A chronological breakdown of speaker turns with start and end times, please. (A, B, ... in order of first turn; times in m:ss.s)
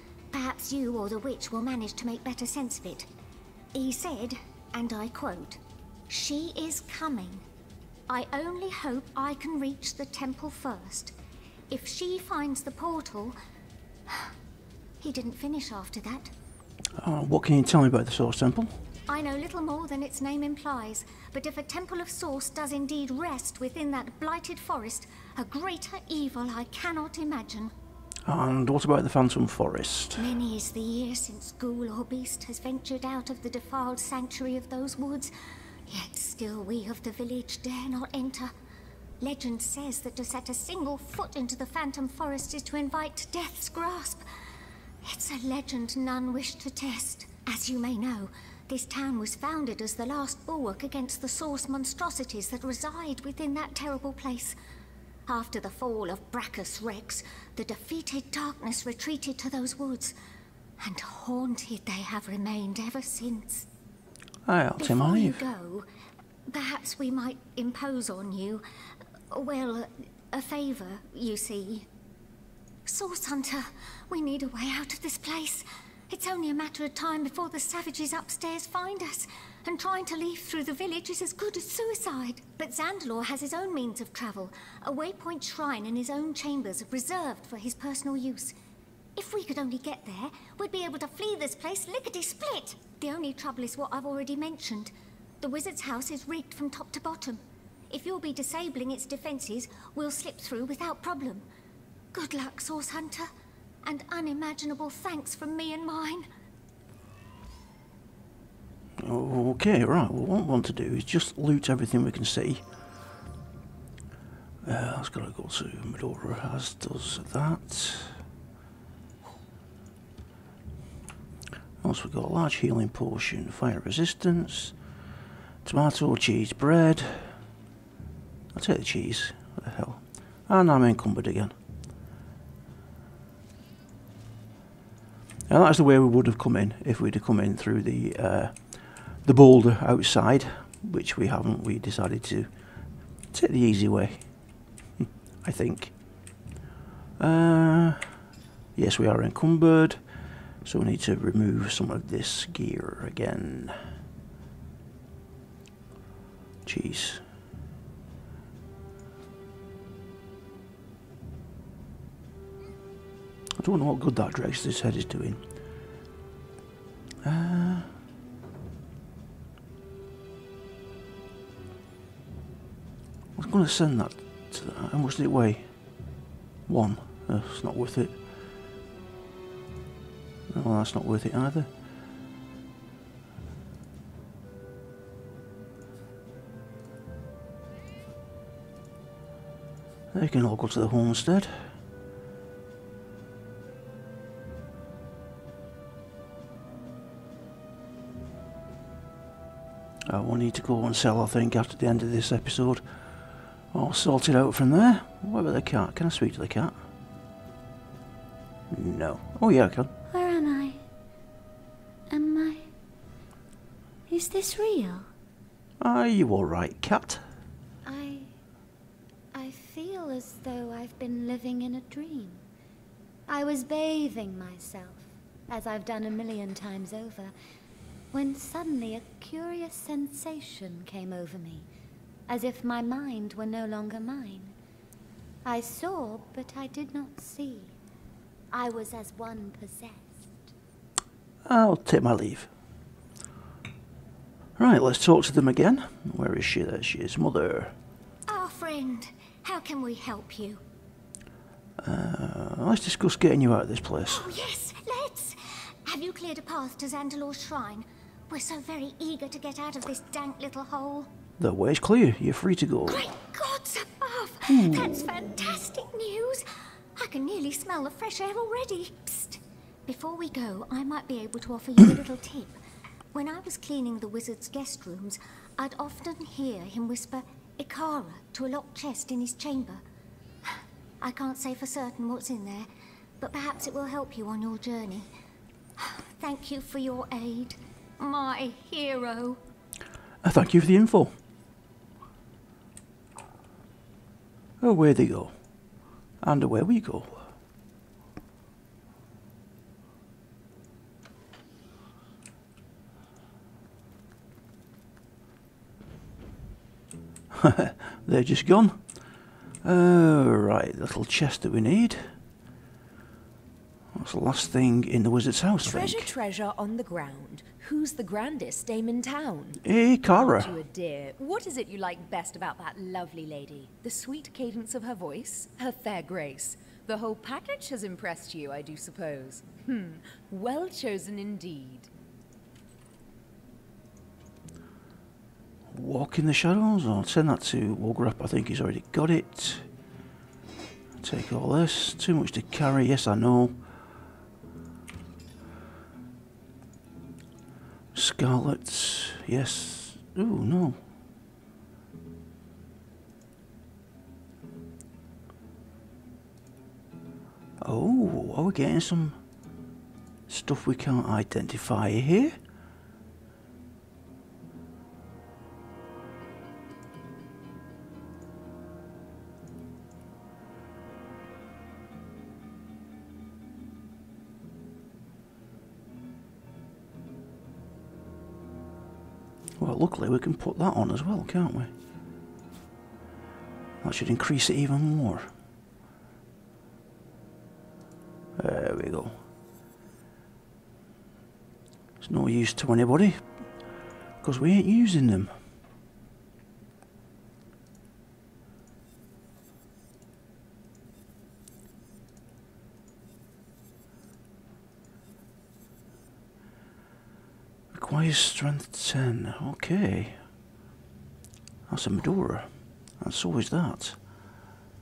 0:00.3-0:03.1 A
0:03.7-0:07.4 A
0:08.1-0:11.1 A
0:11.7-0:13.4 A
0:15.0-0:16.3 A
0:17.0-0:18.8 B
0:19.1-0:27.7 A
0:28.2-0:30.3 B
0:30.2-0:35.3 A
0:35.9-0:38.5 A
0:39.2-0:44.2 A
0:45.0-0:54.6 A
0:55.3-1:00.2 A
1:00.8-1:03.7 A
1:04.4-1:05.4 B
1:04.8-1:05.9 A
1:06.5-1:08.6 A
1:09.3-1:11.9 A
1:12.8-1:28.6 A
1:29.2-1:41.4 A
1:42.1-1:43.3 A
1:43.8-1:46.3 A
1:49.0-1:52.6 B
1:54.6-1:58.2 B
2:01.8-2:04.7 B
2:05.6-2:07.3 B
2:08.5-2:11.5 B
2:15.5-2:18.6 B
2:19.2-2:22.5 B
2:23.3-2:24.3 B
2:25.0-2:25.9 B
2:27.2-2:28.1 B
2:28.8-2:30.0 B
2:30.6-2:33.8 B
2:36.6-2:37.2 B
2:43.6-2:45.4 B
2:47.2-2:47.9 B
2:53.4-2:55.7 B
2:56.7-2:58.2 B
3:00.5-3:01.7 B
3:10.1-3:11.7 B
3:20.1-3:22.8 B
3:23.7-3:26.7 B
3:28.7-3:29.9 B
3:30.1-3:30.8 C
3:32.1-3:32.7 C
3:34.1-3:35.1 C
3:35.8-3:37.2 B
3:37.8-3:38.3 C
3:39.3-3:42.4 C
3:43.3-3:47.3 C
3:48.1-3:51.7 C
3:52.3-3:54.5 C
3:55.4-3:57.7 C
3:58.5-4:00.3 C
4:01.4-4:02.5 B
4:04.6-4:07.7 B
4:08.3-4:10.6 A
4:11.8-4:14.3 B
4:14.1-4:21.1 A
4:21.4-4:23.0 B
4:22.9-4:32.6 A
4:24.5-4:25.0 B
4:33.1-4:39.8 A
4:40.5-4:42.7 A
4:43.2-4:45.1 A
4:45.8-4:49.4 A
4:50.2-4:51.1 B
4:54.6-4:55.3 B
4:56.2-4:57.2 B
5:07.3-5:08.8 B
5:09.6-5:12.1 B
5:13.9-5:16.1 B
5:15.6-5:31.9 D
5:19.6-5:20.6 B
5:35.7-5:39.7 B
5:41.0-5:43.6 B
5:47.9-5:50.8 B
5:57.6-5:59.2 B
6:00.3-6:02.4 B
6:19.6-6:21.7 B
6:23.8-6:25.3 B
6:28.4-6:29.2 B
6:32.0-6:33.4 B
6:34.2-6:35.4 B
6:47.7-6:50.2 B
6:51.7-6:54.0 B